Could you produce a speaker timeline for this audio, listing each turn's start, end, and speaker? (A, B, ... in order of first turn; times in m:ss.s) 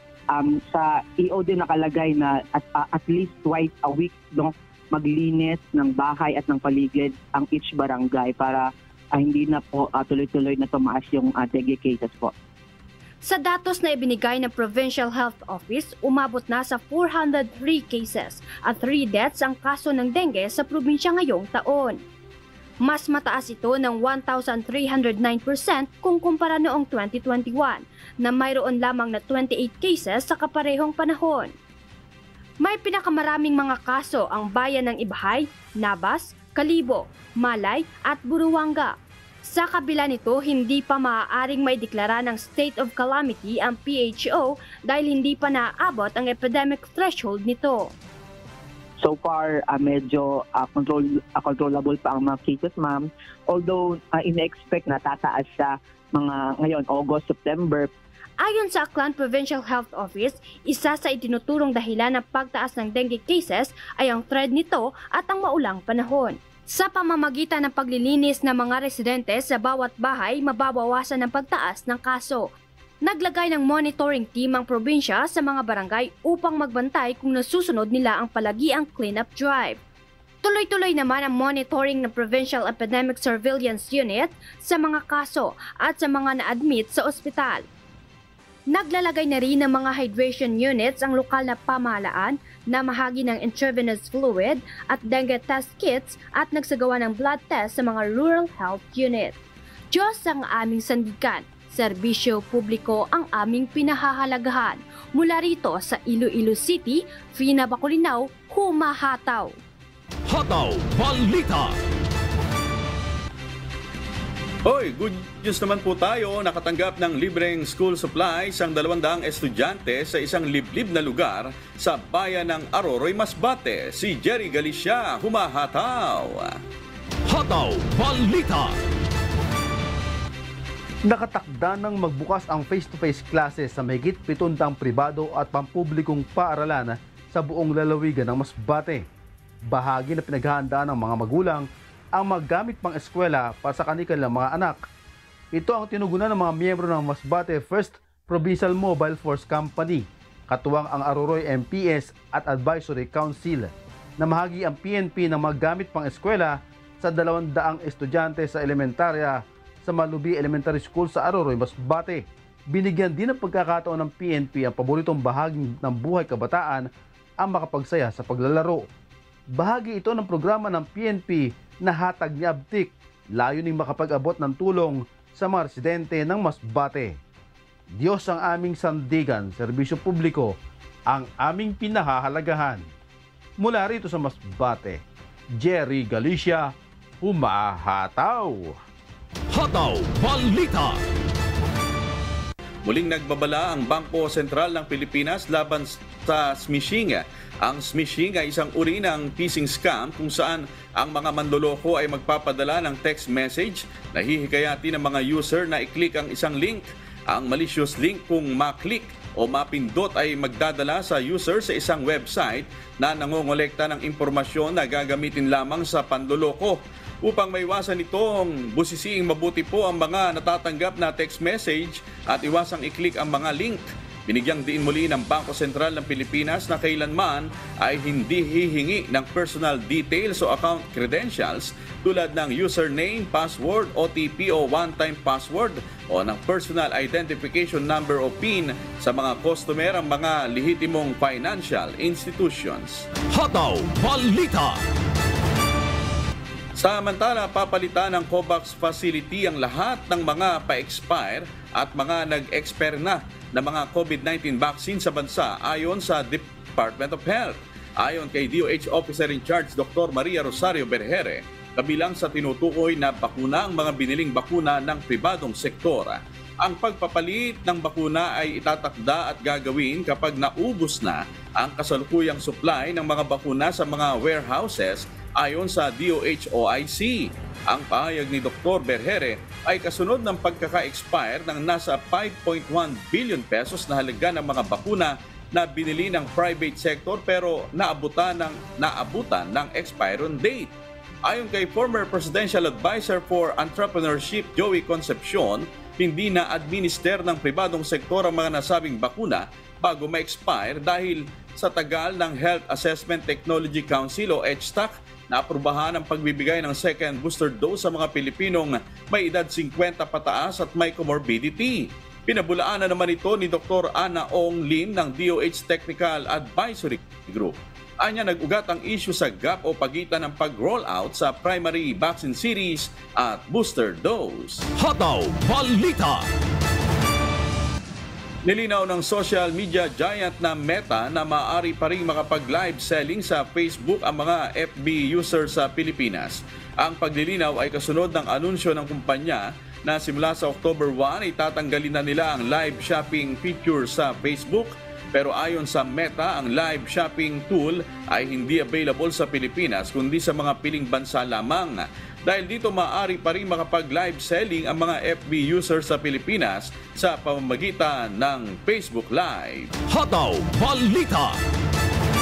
0:00.3-0:12.3 A
0:13.2-0:22.0 B
0:22.8-0:31.5 B
0:32.6-0:38.9 B
0:39.5-0:47.9 B
0:49.0-0:57.8 A
0:58.4-1:12.5 B
1:13.0-1:19.8 B
1:20.4-1:27.6 B
1:28.7-1:39.3 B
1:39.9-1:49.5 B
1:50.3-1:51.8 C
1:54.6-2:06.6 D
2:07.3-2:08.8 C
2:11.1-2:19.0 E
2:19.7-2:24.8 E
2:25.5-2:46.9 E
2:47.4-2:48.8 E
2:49.5-2:57.2 E
2:58.0-3:00.5 E
3:01.1-3:02.8 E
3:03.6-3:05.0 E
3:05.6-3:08.8 E
3:09.5-3:11.0 C
3:12.8-4:03.0 D
4:03.3-4:04.8 C
4:06.8-4:50.7 D
4:51.3-5:24.7 D
5:24.8-5:26.3 C
5:28.4-5:59.7 D
5:59.9-6:01.4 C